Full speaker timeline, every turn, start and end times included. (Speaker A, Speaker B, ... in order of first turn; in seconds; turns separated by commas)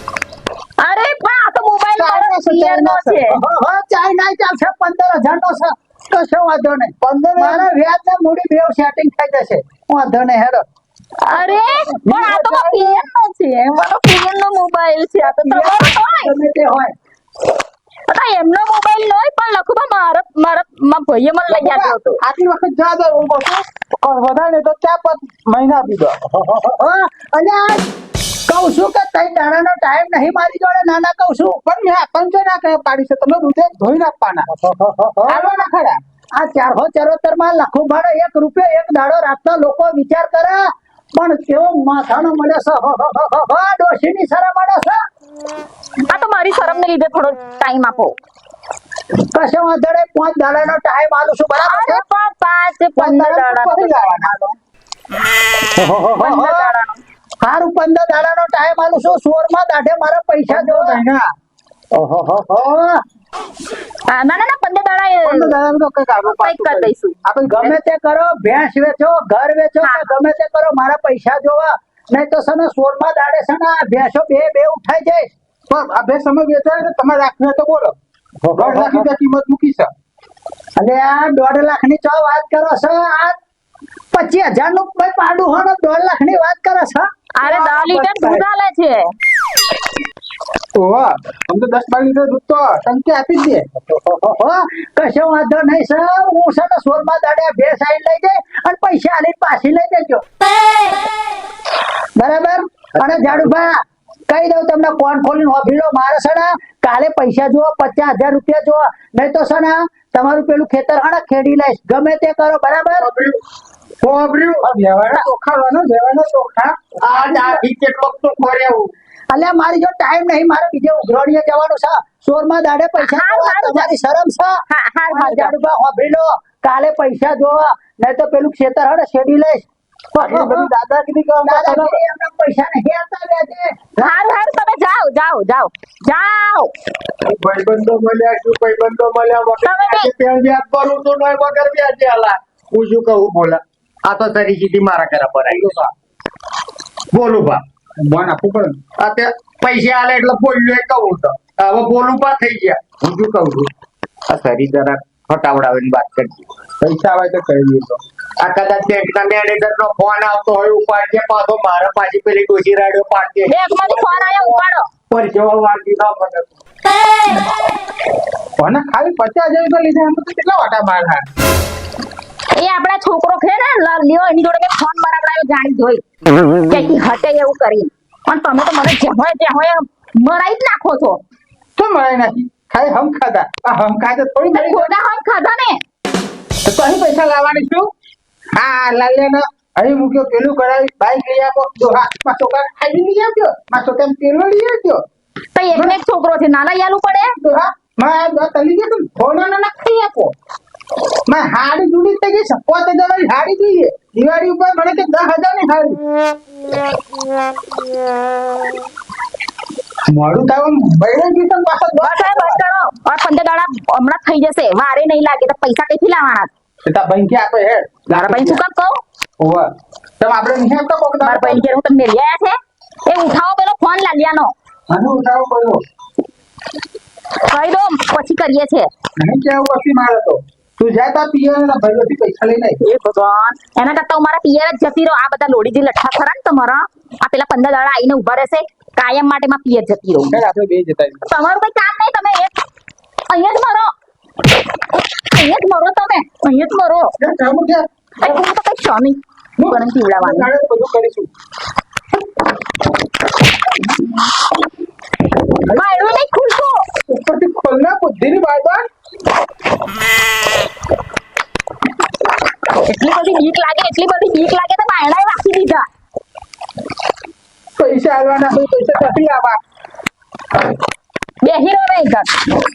Speaker A: 0.8-3.4, Speaker B: 2.0-3.2, Speaker C: 3.3-10.6, Speaker B: 7.0-7.7, Speaker A: 11.2-16.3, Speaker C: 11.3-13.0, Speaker C: 15.2-16.9, Speaker A: 18.1-22.2, Speaker B: 21.5-26.2, Speaker C: 26.3-27.8, Speaker C: 28.5-31.6, Speaker B: 31.7-34.5, Speaker C: 34.5-35.6, Speaker B: 35.3-36.0, Speaker C: 36.4-40.6, Speaker C: 41.2-45.0, Speaker A: 46.0-48.2, Speaker C: 49.3-51.9, Speaker A: 51.7-54.3, Speaker B: 51.7-52.0, Speaker B: 53.0-54.6, Speaker C: 55.8-56.7, Speaker A: 56.2-57.0, Speaker C: 57.4-61.0, Speaker B: 60.5-61.2, Speaker C: 61.9-63.0, Speaker A: 64.1-65.5, Speaker B: 65.2-67.8, Speaker A: 66.3-67.2, Speaker C: 67.5-75.3, Speaker A: 69.8-70.1, Speaker B: 75.7-78.0, Speaker C: 78.4-79.1, Speaker B: 78.5-79.9, Speaker C: 80.8-83.4, Speaker C: 84.1-87.1, Speaker A: 87.4-89.1, Speaker B: 87.4-88.4, Speaker B: 90.8-93.7, Speaker C: 93.9-100.2, Speaker C: 102.2-103.8, Speaker C: 104.3-113.0, Speaker D: 113.0-113.4, Speaker B: 114.0-117.6, Speaker D: 114.1-114.6, Speaker D: 117.0-118.9, Speaker C: 119.3-124.5, Speaker A: 123.0-123.9, Speaker A: 124.7-125.5, Speaker C: 125.1-129.7, Speaker B: 130.1-131.9, Speaker C: 130.2-130.7, Speaker C: 131.4-133.8, Speaker A: 134.0-136.7, Speaker D: 137.3-145.7, Speaker A: 139.6-140.1, Speaker B: 145.5-145.9, Speaker D: 147.1-147.6, Speaker B: 148.0-148.8, Speaker D: 149.0-153.7, Speaker D: 154.3-156.5, Speaker B: 156.8-158.0, Speaker D: 158.4-164.4, Speaker A: 163.5-164.9, Speaker D: 165.1-166.5, Speaker B: 168.6-171.2, Speaker A: 172.5-176.0, Speaker A: 176.7-181.2, Speaker B: 181.8-184.9, Speaker A: 184.5-185.8, Speaker B: 186.7-187.9, Speaker B: 188.6-195.0, Speaker A: 195.6-197.3, Speaker B: 197.4-200.3, Speaker B: 201.3-206.0, Speaker B: 210.1-212.6, Speaker A: 212.0-216.5, Speaker B: 216.8-218.6, Speaker A: 218.1-219.0, Speaker B: 219.4-219.7, Speaker B: 220.2-221.7, Speaker A: 221.2-224.5, Speaker B: 224.9-225.8, Speaker A: 227.4-228.9, Speaker B: 229.2-232.8, Speaker A: 232.8-240.4, Speaker B: 240.3-241.2, Speaker A: 241.2-242.5, Speaker A: 243.3-243.9, Speaker A: 245.1-247.1, Speaker B: 247.2-247.9, Speaker A: 248.2-250.5, Speaker B: 249.6-251.3, Speaker B: 255.7-256.1, Speaker A: 255.7-256.8, Speaker B: 257.1-258.9, Speaker A: 262.8-265.9, Speaker B: 267.8-269.6, Speaker A: 271.4-272.3